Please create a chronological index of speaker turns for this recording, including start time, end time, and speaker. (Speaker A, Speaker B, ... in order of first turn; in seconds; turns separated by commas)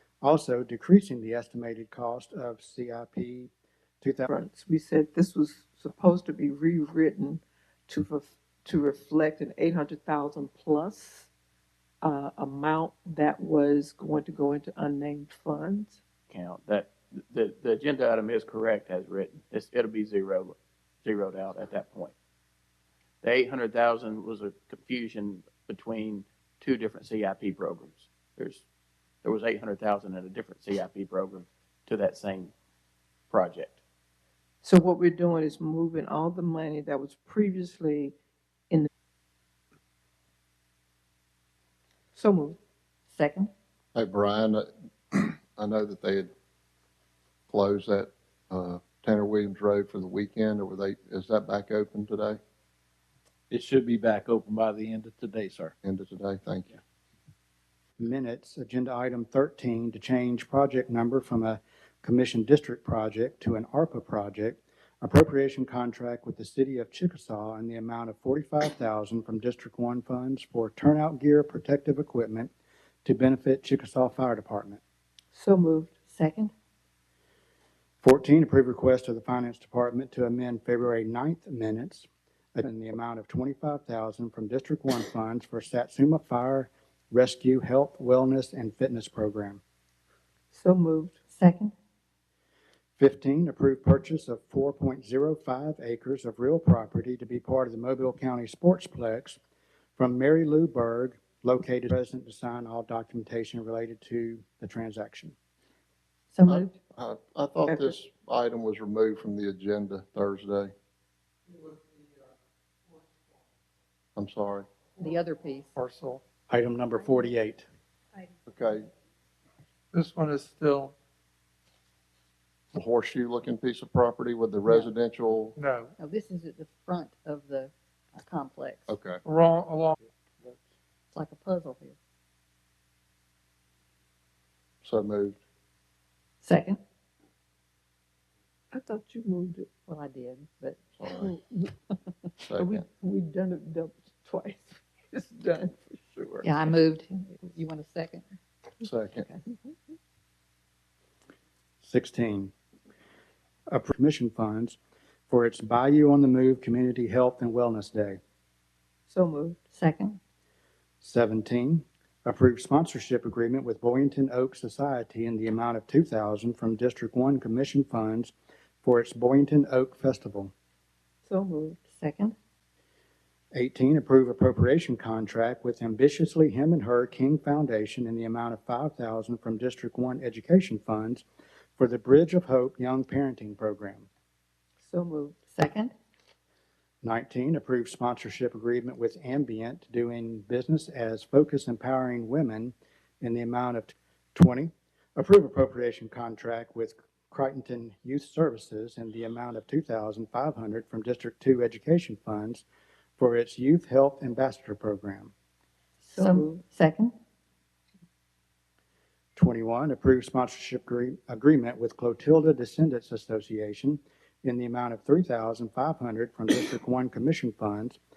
Speaker A: 0.2-4.3, Speaker B: 4.3-11.3, Speaker B: 12.0-16.0, Speaker C: 16.3-22.1, Speaker C: 23.2-28.6, Speaker C: 29.2-32.5, Speaker C: 33.3-33.8, Speaker B: 34.6-38.1, Speaker B: 42.1-42.6, Speaker D: 43.1-43.5, Speaker E: 43.9-46.3, Speaker E: 47.5-52.4, Speaker F: 53.5-55.7, Speaker E: 55.8-56.7, Speaker A: 58.0-72.5, Speaker A: 73.0-74.8, Speaker B: 75.3-75.9, Speaker D: 76.1-76.5, Speaker A: 78.0-89.6, Speaker B: 90.5-91.2, Speaker D: 91.3-91.7, Speaker A: 93.0-99.4, Speaker A: 100.0-105.3, Speaker D: 106.3-106.8, Speaker E: 106.5-110.7, Speaker B: 107.7-107.9, Speaker E: 114.2-114.7, Speaker D: 115.0-115.7, Speaker G: 115.8-116.2, Speaker A: 116.5-117.7, Speaker E: 118.5-118.9, Speaker G: 119.9-120.9, Speaker E: 122.7-125.5, Speaker G: 125.5-125.9, Speaker D: 126.0-129.0, Speaker E: 128.9-129.2, Speaker G: 129.2-129.9, Speaker D: 131.1-131.9, Speaker E: 134.8-135.4, Speaker D: 136.4-136.8, Speaker B: 138.7-139.7, Speaker D: 139.9-140.8, Speaker E: 141.0-141.3, Speaker B: 141.1-141.7, Speaker E: 142.4-142.8, Speaker B: 142.5-146.7, Speaker D: 146.4-148.2, Speaker E: 148.8-149.2, Speaker D: 149.2-149.4, Speaker A: 151.8-152.5, Speaker A: 153.7-154.8, Speaker A: 155.3-158.2, Speaker B: 159.1-159.6, Speaker D: 159.7-160.2, Speaker A: 161.0-170.5, Speaker B: 171.2-171.8, Speaker D: 171.9-172.3, Speaker A: 173.5-181.2, Speaker A: 181.8-184.1, Speaker B: 184.8-185.4, Speaker D: 185.5-185.9, Speaker A: 187.0-202.6, Speaker A: 203.2-205.3, Speaker D: 206.0-207.1, Speaker B: 206.1-206.6, Speaker A: 209.3-218.0